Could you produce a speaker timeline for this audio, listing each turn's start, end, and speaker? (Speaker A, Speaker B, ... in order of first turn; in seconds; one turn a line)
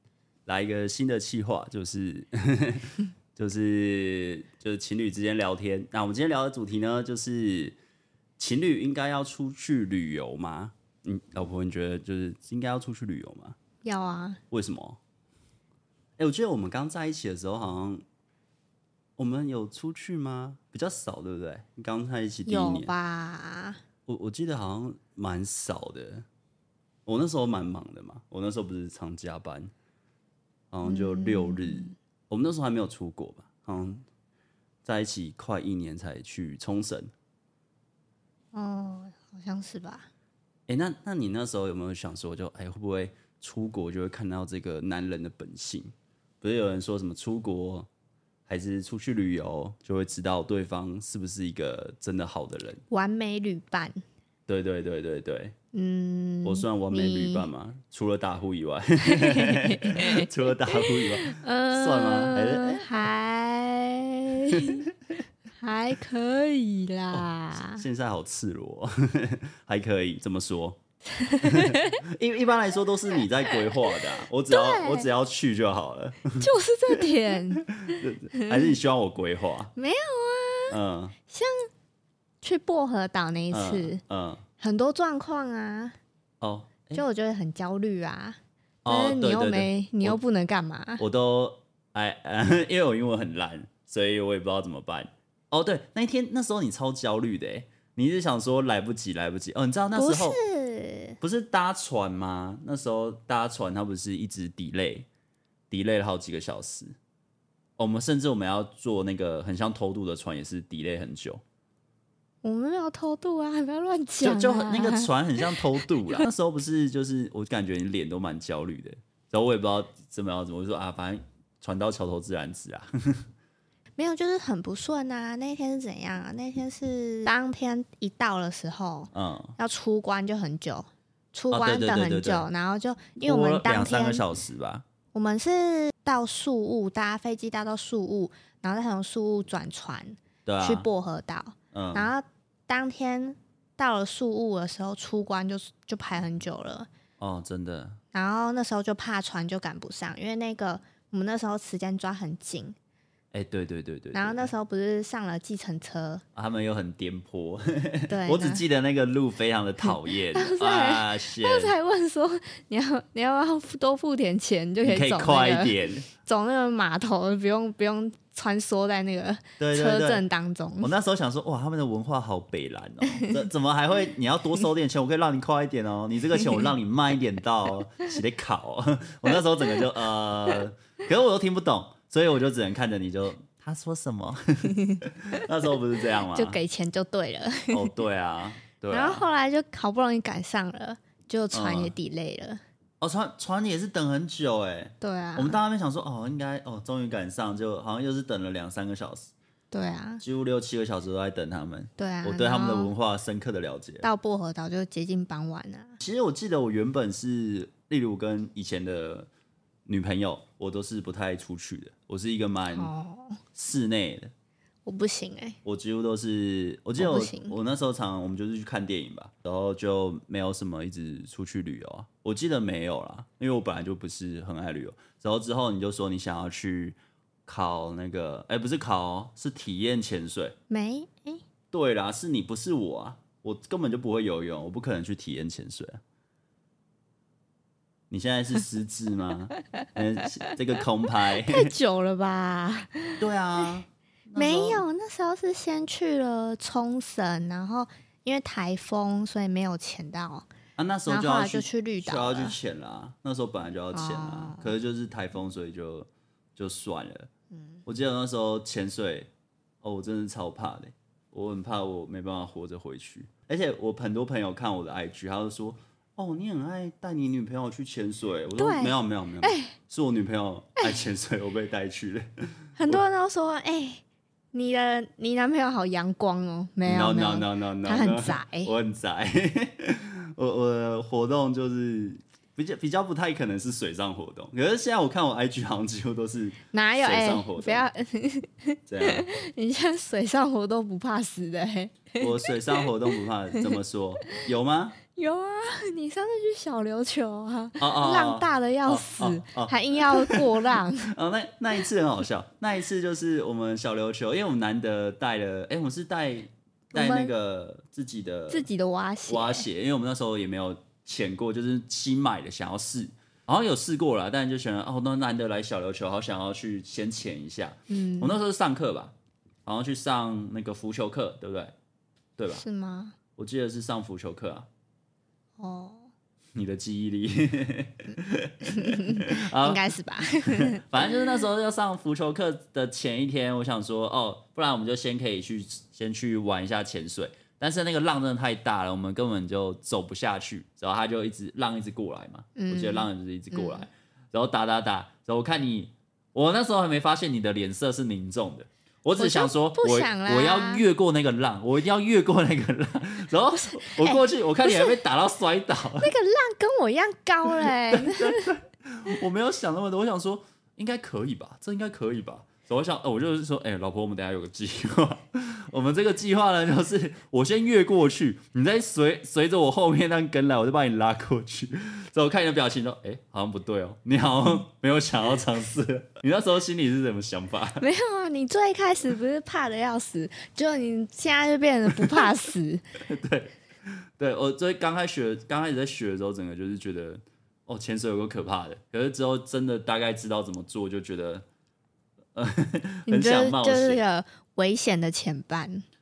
Speaker A: 0.5-7.8
Speaker A: 8.4-13.6
Speaker B: 13.8-14.4
Speaker A: 14.5-15.0
Speaker A: 16.2-18.0
Speaker A: 19.2-22.9
Speaker B: 22.5-23.8
Speaker A: 24.1-26.3
Speaker A: 27.1-29.7
Speaker A: 30.7-34.0
Speaker B: 30.8-31.9
Speaker A: 34.8-37.1
Speaker B: 38.5-40.1
Speaker A: 40.7-47.9
Speaker A: 48.5-52.8
Speaker B: 52.9-54.0
Speaker A: 54.5-55.5
Speaker B: 55.7-57.5
Speaker A: 56.4-62.9
Speaker B: 59.2-64.8
Speaker A: 64.5-64.9
Speaker B: 65.6-67.8
Speaker A: 67.1-70.8
Speaker B: 71.1-72.0
Speaker A: 71.4-77.0
Speaker B: 73.7-75.1
Speaker B: 76.4-78.7
Speaker A: 77.6-79.7
Speaker B: 79.8-80.8
Speaker A: 80.7-81.2
Speaker B: 81.3-81.7
Speaker B: 82.4-84.0
Speaker A: 83.5-84.4
Speaker B: 84.6-86.0
Speaker A: 86.4-87.0
Speaker B: 86.9-91.0
Speaker A: 88.8-90.2
Speaker A: 91.0-100.4
Speaker B: 100.0-101.2
Speaker A: 101.2-105.1
Speaker A: 105.7-107.0
Speaker A: 107.8-111.4
Speaker B: 112.4-115.6
Speaker A: 114.2-123.2
Speaker B: 124.0-134.2
Speaker A: 129.1-129.6
Speaker A: 131.5-132.5
Speaker A: 133.2-134.8
Speaker B: 135.1-146.9
Speaker A: 140.5-140.9
Speaker A: 141.7-142.1
Speaker A: 147.2-148.0
Speaker B: 148.1-152.8
Speaker A: 153.3-154.5
Speaker B: 154.1-156.2
Speaker A: 156.3-161.7
Speaker B: 158.1-158.7
Speaker B: 159.8-170.9
Speaker A: 164.8-166.1
Speaker A: 169.6-170.2
Speaker A: 170.8-186.6
Speaker B: 186.3-187.9
Speaker A: 187.7-189.2
Speaker B: 188.9-192.6
Speaker A: 191.5-191.9
Speaker A: 193.0-199.3
Speaker B: 195.0-195.6
Speaker B: 199.7-200.2
Speaker A: 200.2-204.1
Speaker B: 202.0-202.9
Speaker B: 204.0-206.0
Speaker A: 206.0-209.3
Speaker A: 209.9-212.9
Speaker B: 212.7-213.4
Speaker A: 213.6-214.3
Speaker B: 214.9-215.6
Speaker A: 215.6-230.6
Speaker B: 217.0-217.6
Speaker B: 230.7-231.4
Speaker A: 231.7-236.0
Speaker A: 238.1-241.7
Speaker B: 241.3-243.2
Speaker A: 243.2-244.8
Speaker B: 244.4-250.5
Speaker A: 250.8-257.3
Speaker B: 251.1-252.6
Speaker B: 253.9-254.7
Speaker B: 257.5-257.8
Speaker A: 257.9-259.3
Speaker A: 259.8-273.0
Speaker B: 268.6-269.7
Speaker B: 272.8-274.0
Speaker B: 274.5-278.7
Speaker A: 276.8-287.9
Speaker B: 286.7-292.9
Speaker A: 288.9-289.3
Speaker A: 292.2-295.0
Speaker B: 295.1-301.1
Speaker A: 297.8-308.7
Speaker B: 306.9-307.3
Speaker B: 308.5-309.7
Speaker A: 309.3-319.1
Speaker B: 317.9-318.4
Speaker A: 319.7-321.7
Speaker A: 322.4-322.6
Speaker B: 322.6-323.2
Speaker A: 323.4-324.7
Speaker B: 325.6-326.1
Speaker A: 326.6-356.1
Speaker B: 328.7-331.4
Speaker B: 342.6-343.9
Speaker B: 349.2-350.8
Speaker B: 353.7-354.9
Speaker B: 356.0-358.5
Speaker A: 357.6-377.9
Speaker B: 377.8-382.8
Speaker A: 383.1-391.5
Speaker A: 392.4-394.0
Speaker B: 393.1-395.9